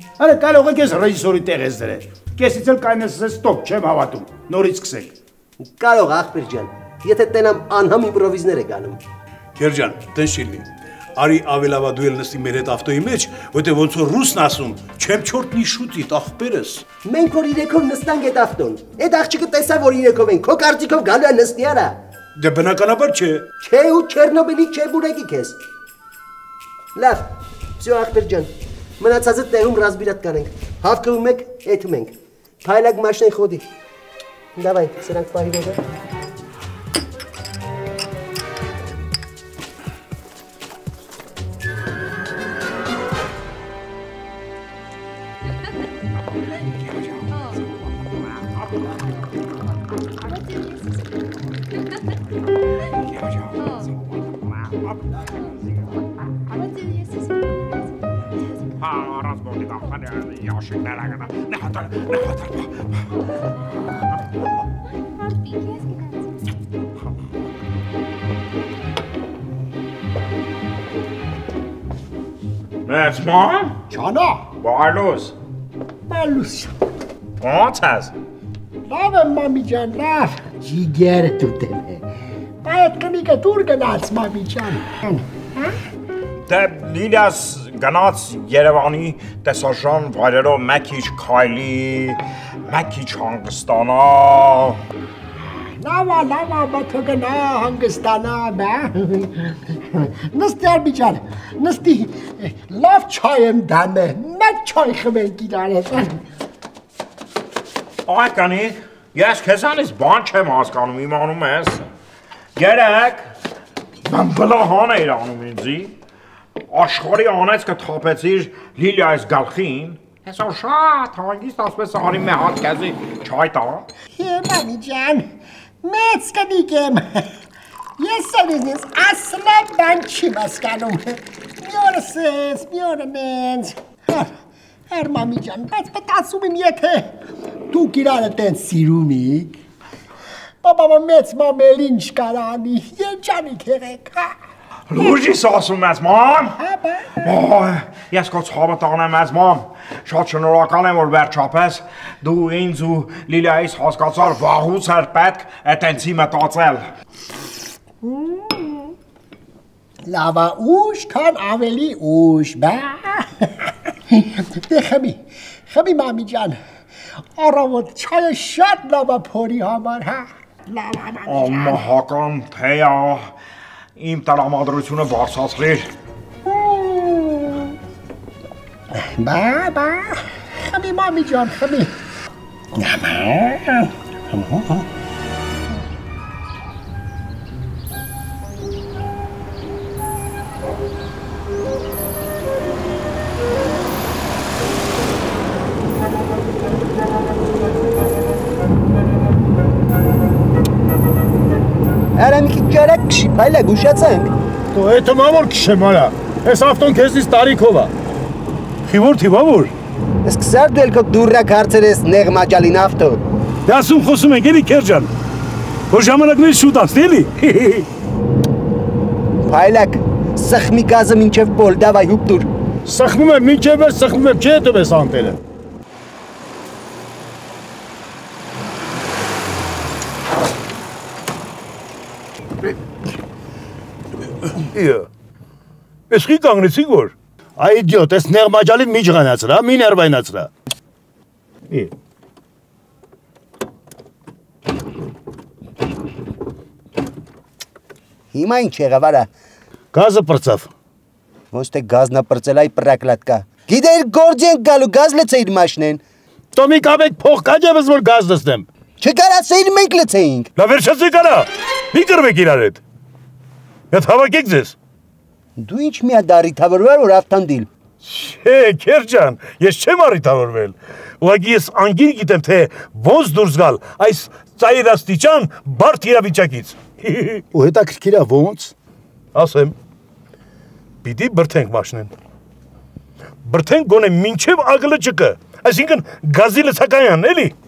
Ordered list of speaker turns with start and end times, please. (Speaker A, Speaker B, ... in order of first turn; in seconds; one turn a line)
Speaker A: 0.2-5.1
Speaker B: 5.6-9.0
Speaker C: 9.6-16.8
Speaker B: 17.0-22.0
Speaker C: 22.4-23.4
Speaker B: 23.6-25.6
Speaker B: 26.9-27.3
Speaker B: 27.8-32.1
Speaker B: 32.6-33.6
Speaker B: 34.6-35.8
Speaker D: 53.0-55.0
Speaker D: 58.8-62.7
Speaker D: 72.8-73.8
Speaker E: 73.9-74.4
Speaker D: 74.6-75.3
Speaker E: 76.1-76.7
Speaker D: 77.4-78.1
Speaker E: 78.9-82.0
Speaker E: 82.6-85.7
Speaker D: 86.5-94.8
Speaker E: 95.8-106.2
Speaker D: 108.1-111.8
Speaker D: 112.5-113.3
Speaker D: 114.0-115.9
Speaker D: 116.7-123.9
Speaker E: 124.1-125.3
Speaker E: 125.8-127.2
Speaker E: 128.0-134.3
Speaker E: 134.9-137.1
Speaker E: 137.7-139.6
Speaker E: 140.6-144.3
Speaker D: 144.9-146.6
Speaker E: 146.6-147.1
Speaker D: 147.2-156.8
Speaker E: 158.1-158.5
Speaker E: 160.1-163.4
Speaker E: 164.1-165.2
Speaker E: 165.7-166.6
Speaker E: 167.4-171.8
Speaker D: 171.3-173.3
Speaker D: 174.0-175.9
Speaker E: 176.4-177.7
Speaker E: 178.9-181.9
Speaker E: 182.7-184.8
Speaker B: 202.2-204.3
Speaker A: 204.7-207.9
Speaker C: 208.8-209.7
Speaker B: 210.2-213.2
Speaker C: 213.7-215.1
Speaker C: 215.9-217.9
Speaker B: 219.5-222.5
Speaker A: 222.8-225.4
Speaker C: 236.1-237.1
Speaker A: 237.6-240.5
Speaker B: 248.3-249.3
Speaker A: 249.9-250.7
Speaker B: 251.5-256.0
Speaker A: 256.5-258.6
Speaker B: 259.0-260.5
Speaker C: 260.6-262.8
Speaker C: 263.9-264.7
Speaker B: 265.6-267.7
Speaker C: 268.0-277.4
Speaker A: 277.5-278.7
Speaker C: 279.3-279.7
Speaker C: 281.0-282.1
Speaker C: 283.4-287.5